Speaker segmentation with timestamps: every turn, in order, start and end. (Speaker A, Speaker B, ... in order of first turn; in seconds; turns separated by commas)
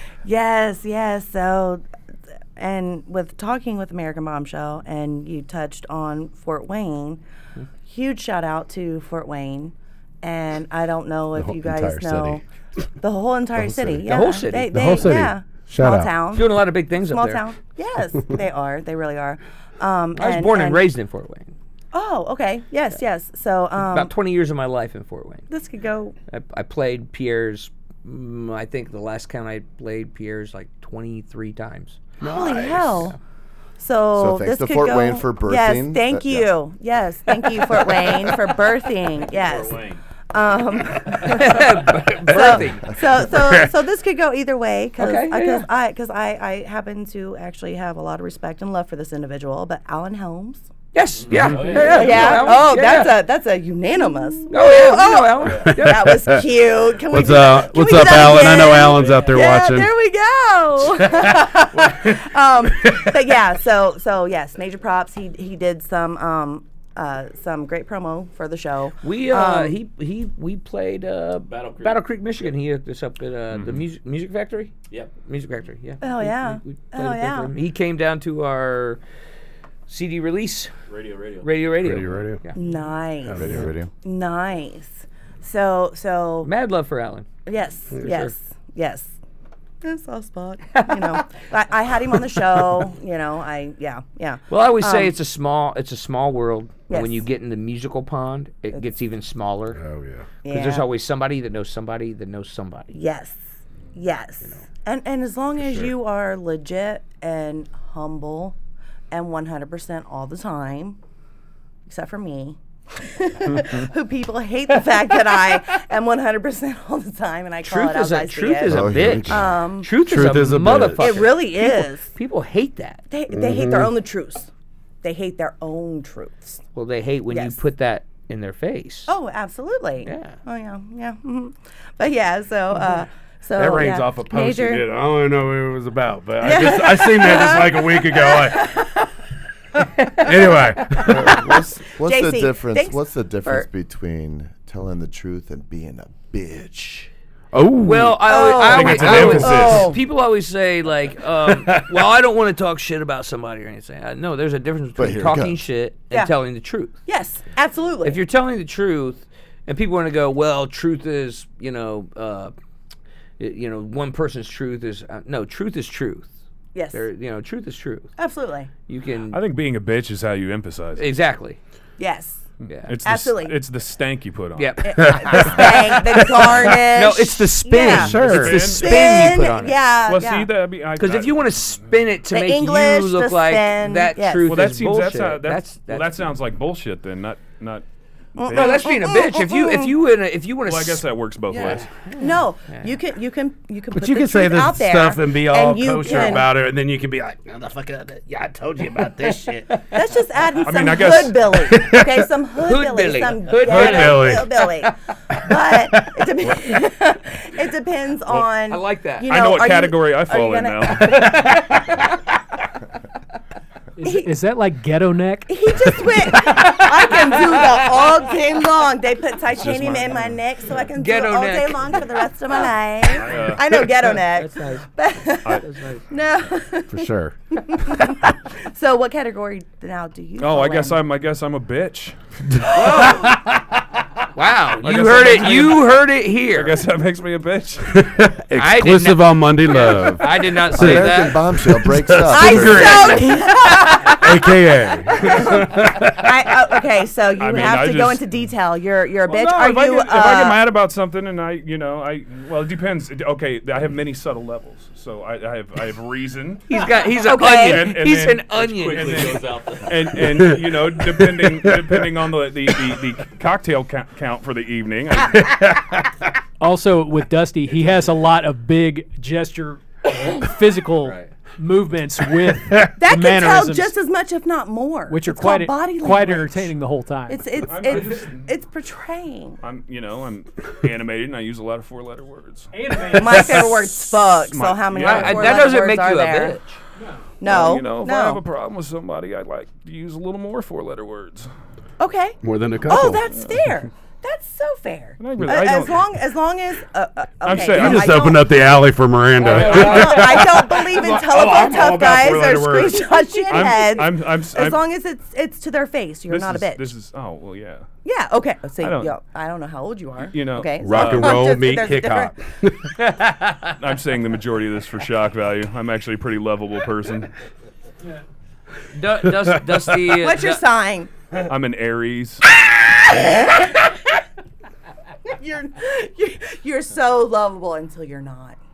Speaker A: 0.2-1.8, Speaker A: 2.6-7.2, Speaker A: 7.9-12.4, Speaker B: 11.3-12.4, Speaker A: 13.0-20.9, Speaker B: 13.6-14.1, Speaker C: 14.1-15.1, Speaker B: 14.7-16.1, Speaker C: 16.3-17.4, Speaker C: 20.1-21.5, Speaker A: 21.9-24.1, Speaker C: 23.9-25.5, Speaker A: 25.5-26.1, Speaker C: 26.3-32.0, Speaker B: 32.2-33.1, Speaker A: 32.2-33.2, Speaker A: 33.8-39.8, Speaker D: 34.1-36.5, Speaker E: 39.4-40.0, Speaker A: 40.3-41.6, Speaker C: 41.2-43.0, Speaker A: 42.2-50.6, Speaker B: 43.1-43.7, Speaker C: 45.0-45.6, Speaker C: 50.9-53.2, Speaker E: 51.2-52.7, Speaker B: 51.3-51.8, Speaker A: 51.7-69.8, Speaker C: 54.5-56.4, Speaker B: 55.6-56.5, Speaker B: 57.1-59.9, Speaker E: 58.0-59.4, Speaker B: 61.0-62.2, Speaker B: 62.8-63.1, Speaker C: 69.0-79.0, Speaker E: 71.5-72.0, Speaker E: 73.5-73.8, Speaker A: 76.0-77.5, Speaker C: 79.9-80.7, Speaker E: 80.9-81.5, Speaker C: 81.4-82.5, Speaker B: 81.8-82.4, Speaker A: 82.5-86.5, Speaker B: 83.3-83.7, Speaker D: 83.3-83.9, Speaker C: 86.4-87.2, Speaker A: 87.5-89.1, Speaker C: 88.0-88.3, Speaker A: 89.8-95.1, Speaker C: 90.7-91.3, Speaker C: 94.5-99.8, Speaker A: 96.9-97.2, Speaker B: 99.7-100.3, Speaker A: 100.4-100.9, Speaker C: 100.5-102.9, Speaker A: 102.9-103.4, Speaker A: 103.9-108.5, Speaker A: 109.1-111.0, Speaker A: 111.9-119.9, Speaker C: 115.1-115.5, Speaker C: 117.6-123.0, Speaker D: 118.7-119.5, Speaker B: 120.0-121.2, Speaker A: 121.0-122.1, Speaker A: 123.1-124.5, Speaker B: 123.3-123.9, Speaker A: 125.0-126.6, Speaker C: 126.8-129.1, Speaker A: 127.3-127.6, Speaker A: 129.1-134.9, Speaker C: 130.0-130.4, Speaker B: 133.6-138.8, Speaker A: 136.4-138.9, Speaker B: 140.2-141.3, Speaker A: 140.2-141.1, Speaker D: 141.0-147.1, Speaker A: 142.0-143.7, Speaker B: 147.5-148.4, Speaker C: 147.8-157.0, Speaker A: 148.2-150.0, Speaker F: 148.6-149.9, Speaker B: 149.1-149.6, Speaker B: 151.4-151.9, Speaker D: 154.9-155.6, Speaker A: 157.1-158.2, Speaker C: 158.0-162.5, Speaker C: 163.4-166.3, Speaker A: 166.8-167.0, Speaker C: 166.9-168.1, Speaker A: 168.2-168.7, Speaker C: 168.9-169.4, Speaker F: 169.3-171.1, Speaker C: 171.0-171.6, Speaker A: 172.0-172.4, Speaker F: 172.6-174.8, Speaker C: 172.7-172.9, Speaker A: 173.0-173.6, Speaker C: 174.6-179.8, Speaker A: 174.8-178.2, Speaker B: 175.0-175.7, Speaker B: 177.8-178.7, Speaker F: 178.1-181.6, Speaker A: 178.8-180.5, Speaker C: 181.0-186.3, Speaker A: 182.3-184.5, Speaker F: 184.4-187.8, Speaker A: 188.4-189.9, Speaker F: 188.5-188.8, Speaker C: 188.5-192.9, Speaker F: 190.7-191.9, Speaker A: 192.2-196.5, Speaker B: 193.9-199.7, Speaker A: 199.9-211.4, Speaker F: 200.6-201.5, Speaker B: 201.6-202.1, Speaker C: 202.6-204.5, Speaker B: 203.6-204.6, Speaker B: 205.5-206.1, Speaker C: 208.7-209.3, Speaker F: 209.3-211.2, Speaker C: 211.1-211.8, Speaker G: 214.0-215.9, Speaker A: 214.0-214.3, Speaker A: 215.5-231.0, Speaker C: 217.3-217.8, Speaker F: 219.8-220.1, Speaker C: 220.9-222.0, Speaker F: 223.2-223.8, Speaker C: 224.2-224.9, Speaker C: 225.4-226.0, Speaker B: 226.9-227.3, Speaker F: 230.4-232.2, Speaker B: 232.6-233.5, Speaker C: 232.7-233.4, Speaker C: 234.3-236.8, Speaker F: 234.8-235.8, Speaker F: 236.5-237.8, Speaker B: 238.0-246.3, Speaker C: 238.6-241.4, Speaker D: 240.7-243.3, Speaker A: 242.3-244.6, Speaker A: 245.1-250.6, Speaker F: 247.4-248.2, Speaker F: 249.3-256.6, Speaker C: 256.7-259.4, Speaker A: 257.2-258.0, Speaker F: 257.6-265.6, Speaker E: 258.6-260.2, Speaker B: 260.4-262.0, Speaker B: 265.6-265.9, Speaker G: 266.6-273.9, Speaker E: 271.0-271.3, Speaker A: 273.0-276.7, Speaker G: 275.1-277.5, Speaker A: 277.3-279.6, Speaker F: 277.6-278.5, Speaker F: 279.6-282.7, Speaker G: 282.7-283.6, Speaker A: 283.1-286.6, Speaker F: 283.4-283.7, Speaker F: 284.4-285.8, Speaker C: 284.9-286.8, Speaker G: 287.0-287.3, Speaker A: 287.4-288.4, Speaker F: 287.4-291.5, Speaker A: 292.0-298.5, Speaker B: 292.4-293.2, Speaker F: 293.4-293.6, Speaker F: 295.2-296.1, Speaker F: 297.4-298.2, Speaker B: 297.6-303.4, Speaker C: 299.4-300.4, Speaker A: 299.4-306.9, Speaker F: 299.5-299.9, Speaker F: 303.5-304.8, Speaker F: 306.3-307.9, Speaker A: 308.0-312.3, Speaker F: 308.8-309.1, Speaker F: 310.3-311.5, Speaker B: 310.8-312.9, Speaker C: 313.1-313.4, Speaker F: 313.8-317.3, Speaker C: 318.9-320.6, Speaker A: 320.2-321.1, Speaker F: 321.5-322.4, Speaker A: 325.2-328.6